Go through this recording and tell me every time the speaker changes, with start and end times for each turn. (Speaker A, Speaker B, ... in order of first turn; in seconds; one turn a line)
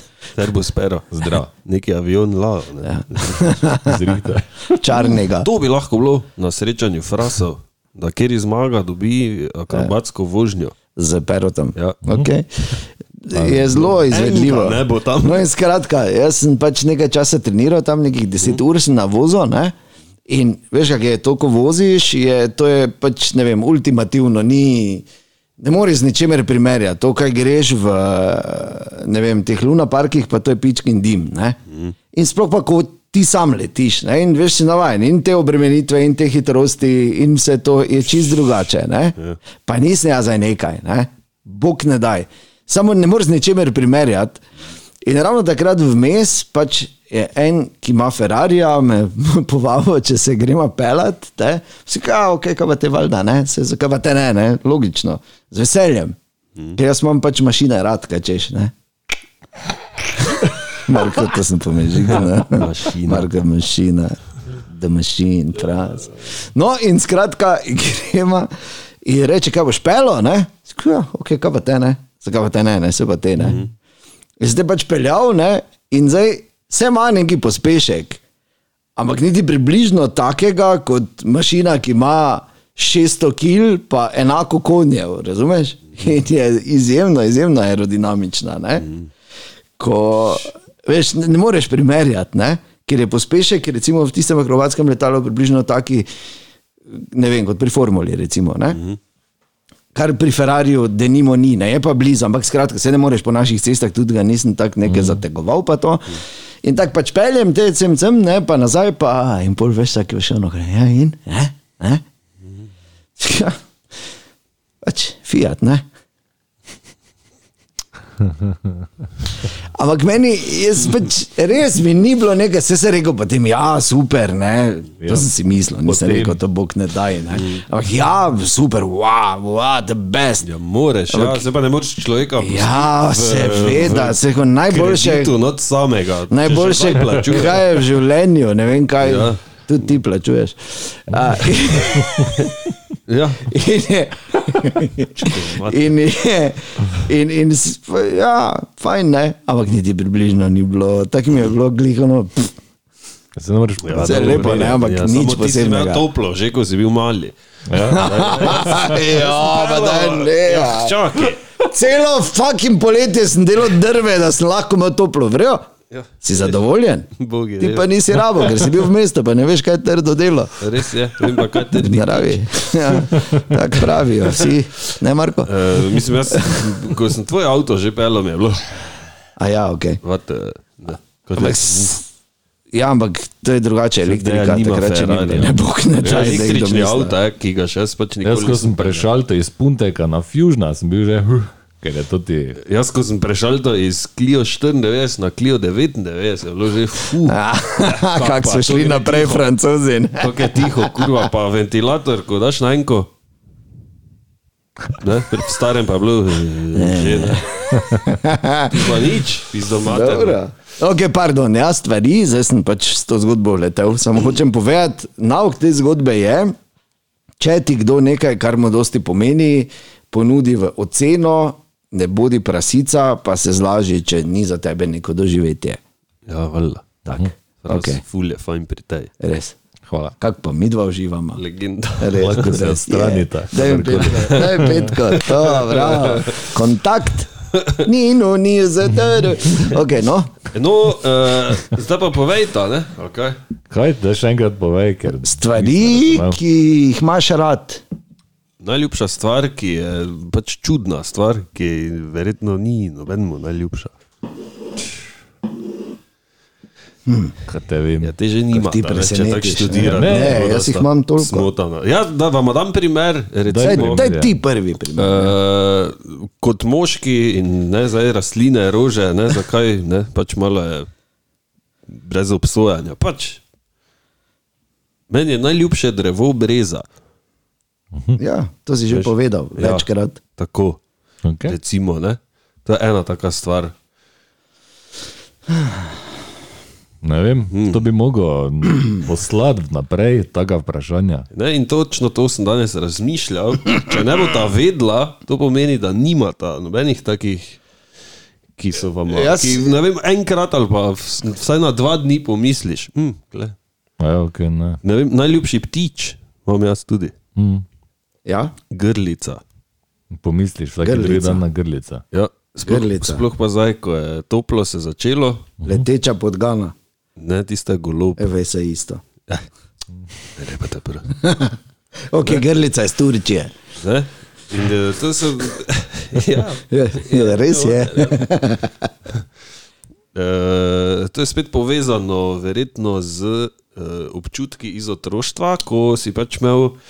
Speaker A: 0.3-3.5
Speaker B: 1.1-1.5
Speaker C: 2.8-5.5
Speaker B: 3.8-4.7
Speaker A: 5.1-10.7
Speaker C: 10.9-19.7
Speaker B: 13.3-14.0
Speaker A: 13.9-15.4
Speaker C: 20.3-25.1
Speaker C: 25.6-31.6
Speaker C: 32.1-44.4
Speaker C: 45.0-56.1
Speaker C: 56.8-58.7
Speaker C: 60.0-68.5
Speaker A: 62.4-63.3
Speaker C: 69.0-73.6
Speaker A: 73.4-73.7
Speaker C: 74.4-78.2
Speaker C: 79.0-88.9
Speaker A: 88.8-89.1
Speaker C: 89.8-96.1
Speaker C: 96.9-98.8
Speaker C: 99.9-112.0
Speaker B: 104.9-105.2
Speaker C: 113.2-113.6
Speaker C: 114.8-115.8
Speaker C: 119.7-130.4
Speaker B: 125.0-125.3
Speaker B: 125.8-126.4
Speaker A: 127.3-127.6
Speaker A: 130.4-137.9
Speaker C: 131.1-131.4
Speaker C: 132.4-135.3
Speaker C: 136.3-142.5
Speaker A: 139.0-139.4
Speaker A: 143.1-143.5
Speaker C: 143.4-152.5
Speaker A: 145.1-146.0
Speaker B: 153.4-154.8
Speaker A: 153.8-157.3
Speaker C: 154.0-156.1
Speaker B: 157.7-159.0
Speaker C: 157.8-165.6
Speaker A: 157.9-161.4
Speaker A: 165.9-166.6
Speaker C: 166.2-170.7
Speaker A: 167.2-168.6
Speaker A: 170.6-173.0
Speaker C: 171.6-176.7
Speaker A: 175.4-178.8
Speaker C: 179.4-180.0
Speaker A: 180.0-182.0
Speaker C: 181.3-182.1
Speaker C: 182.7-187.2
Speaker A: 184.0-189.1
Speaker B: 188.2-192.6
Speaker A: 192.6-199.5
Speaker C: 197.2-201.3
Speaker A: 200.2-203.1
Speaker A: 204.9-207.6
Speaker C: 206.7-209.1
Speaker A: 208.7-210.4
Speaker C: 209.8-216.5
Speaker C: 217.4-225.8
Speaker A: 226.2-227.0
Speaker C: 227.1-228.0
Speaker A: 227.6-229.1
Speaker C: 229.2-229.5
Speaker B: 229.9-230.2
Speaker C: 230.2-231.4
Speaker A: 231.3-232.6
Speaker C: 232.0-240.3
Speaker B: 232.2-234.9
Speaker A: 234.2-236.5
Speaker A: 240.5-243.4
Speaker B: 243.7-246.4
Speaker C: 245.2-247.8
Speaker A: 248.6-253.9
Speaker C: 257.1-257.3
Speaker B: 257.5-258.1
Speaker A: 258.0-264.1
Speaker C: 258.5-261.5
Speaker B: 259.9-260.4
Speaker B: 263.5-264.3
Speaker C: 263.6-265.3
Speaker A: 264.9-270.9
Speaker A: 271.9-273.4
Speaker A: 275.1-276.8
Speaker B: 277.9-278.2
Speaker C: 278.2-280.2
Speaker A: 278.9-280.8
Speaker B: 281.2-281.6
Speaker A: 281.4-283.7
Speaker B: 287.0-291.3
Speaker A: 287.5-287.8
Speaker A: 291.3-297.6
Speaker A: 298.6-303.5
Speaker C: 299.1-299.8
Speaker B: 304.0-304.8
Speaker A: 304.8-307.1
Speaker B: 307.4-307.6
Speaker C: 308.2-308.5
Speaker A: 308.7-309.4
Speaker B: 310.1-312.0
Speaker C: 310.8-311.4
Speaker A: 312.1-315.5
Speaker C: 312.6-313.2
Speaker C: 315.6-316.7
Speaker A: 317.2-318.3
Speaker C: 318.2-319.0
Speaker A: 320.4-321.1
Speaker C: 321.2-321.6
Speaker C: 322.1-323.5
Speaker A: 323.8-328.3
Speaker C: 326.7-328.9
Speaker A: 330.1-336.8